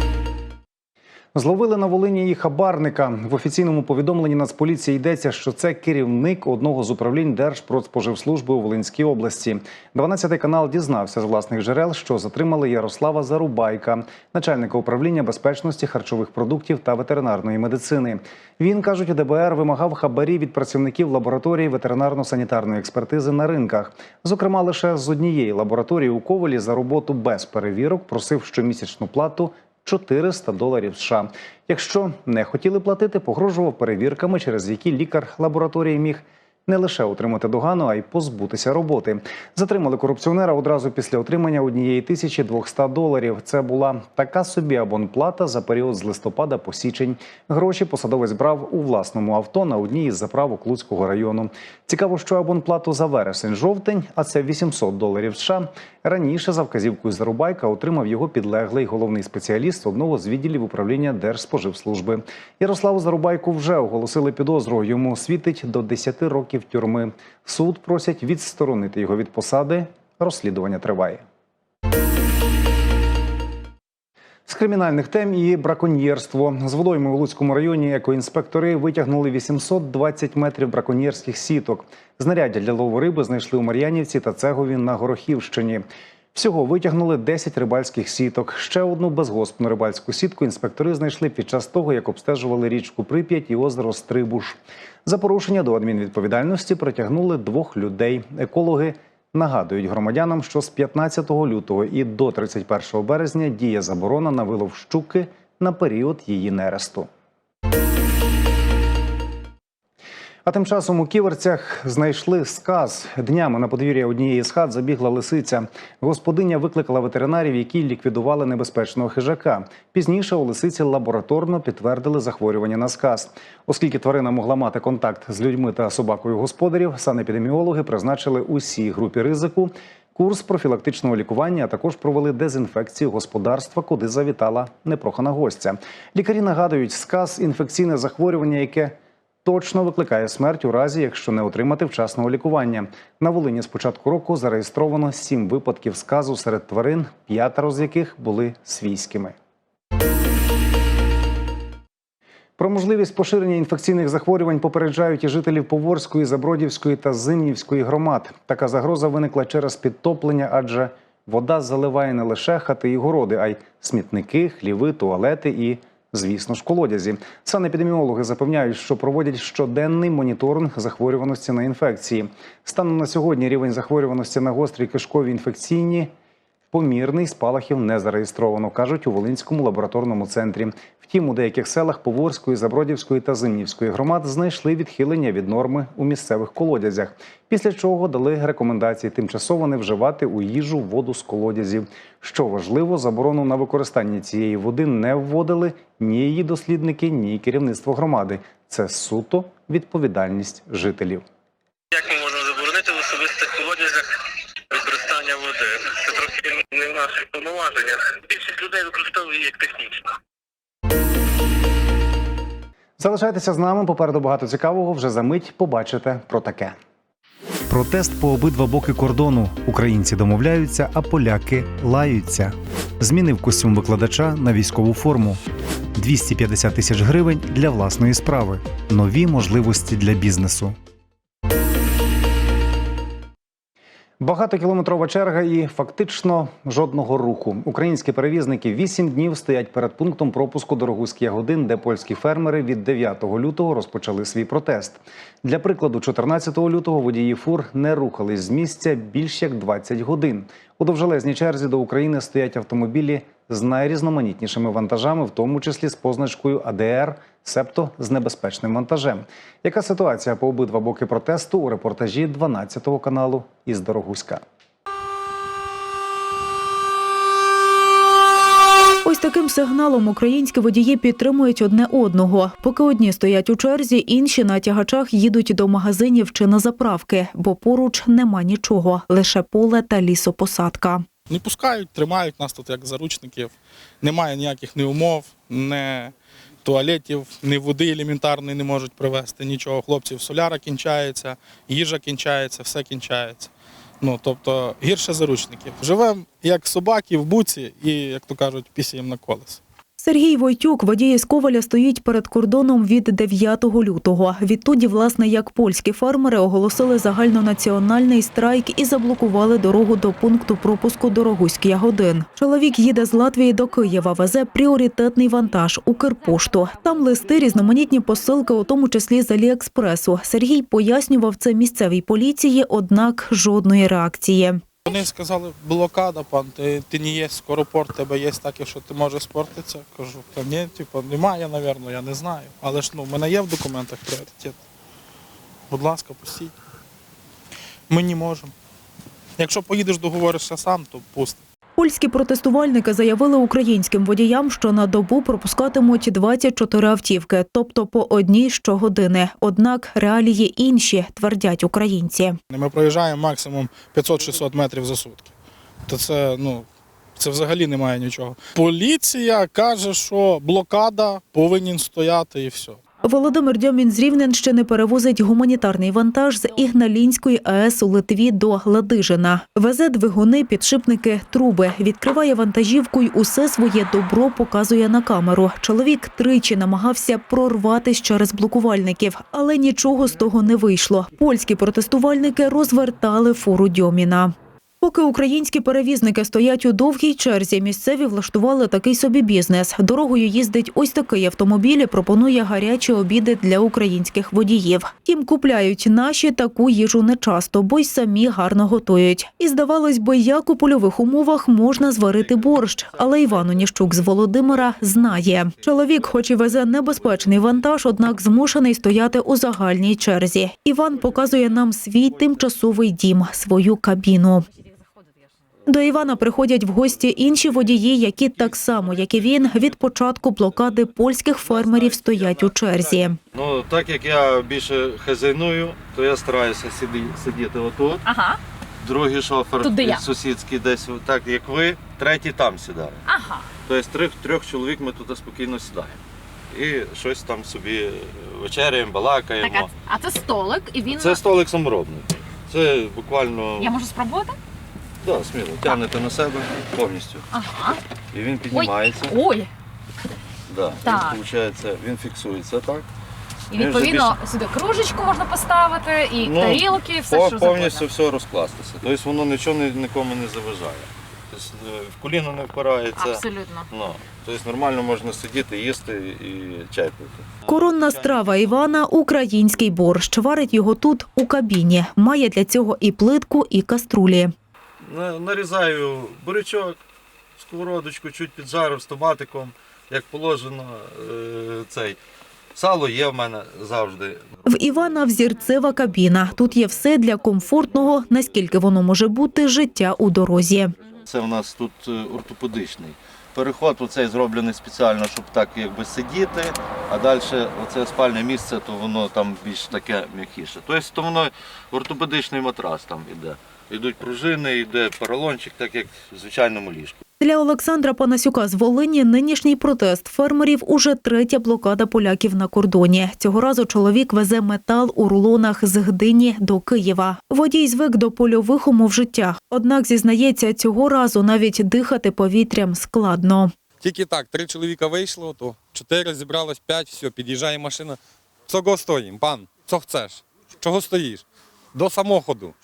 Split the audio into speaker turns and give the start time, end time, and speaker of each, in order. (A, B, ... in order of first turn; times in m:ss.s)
0:01.3-1:11.2 A
1:14.5-1:47.1 A
1:50.4-2:29.4 A
2:32.6-2:56.1 A
2:56.7-3:21.2 A
3:22.0-3:24.0 B
3:24.7-3:29.9 B
3:33.0-3:36.8 A
3:37.7-3:45.4 A
3:46.0-3:50.8 A
3:54.2-4:24.4 A
4:29.0-4:41.1 C
4:41.3-4:59.6 D
5:00.0-5:24.6 C
5:24.8-5:34.6 D
5:35.7-5:36.5 D
5:37.9-5:38.5 D
5:39.4-5:41.4 D
5:41.8-5:52.4 C
5:52.5-5:55.3 D
5:55.9-6:02.8 D
6:03.0-6:54.5 C
6:55.7-7:03.2 C
7:03.3-7:08.0 E
7:08.1-7:08.4 F
7:08.8-7:13.0 E
7:09.6-7:10.0 F
7:13.1-7:13.5 F
7:13.6-7:16.0 E
7:16.5-7:19.7 E
7:19.4-7:21.2 F
7:20.9-7:23.7 E
7:23.6-7:24.4 F
7:25.0-7:27.2 E
7:27.3-7:27.8 F
7:28.1-7:29.2 E
7:28.5-7:29.5 F
7:30.5-7:32.8 E
7:30.8-7:31.2 F
7:33.5-7:37.9 F
7:33.5-7:34.2 E
7:36.2-7:48.7 E
7:43.0-7:43.7 F
7:47.5-7:54.3 C
7:54.8-7:56.8 E
7:57.4-8:02.0 E
8:02.6-8:04.4 E
8:04.5-8:10.7 C
8:11.0-8:27.0 E
8:27.2-8:43.5 C
8:43.8-8:52.5 G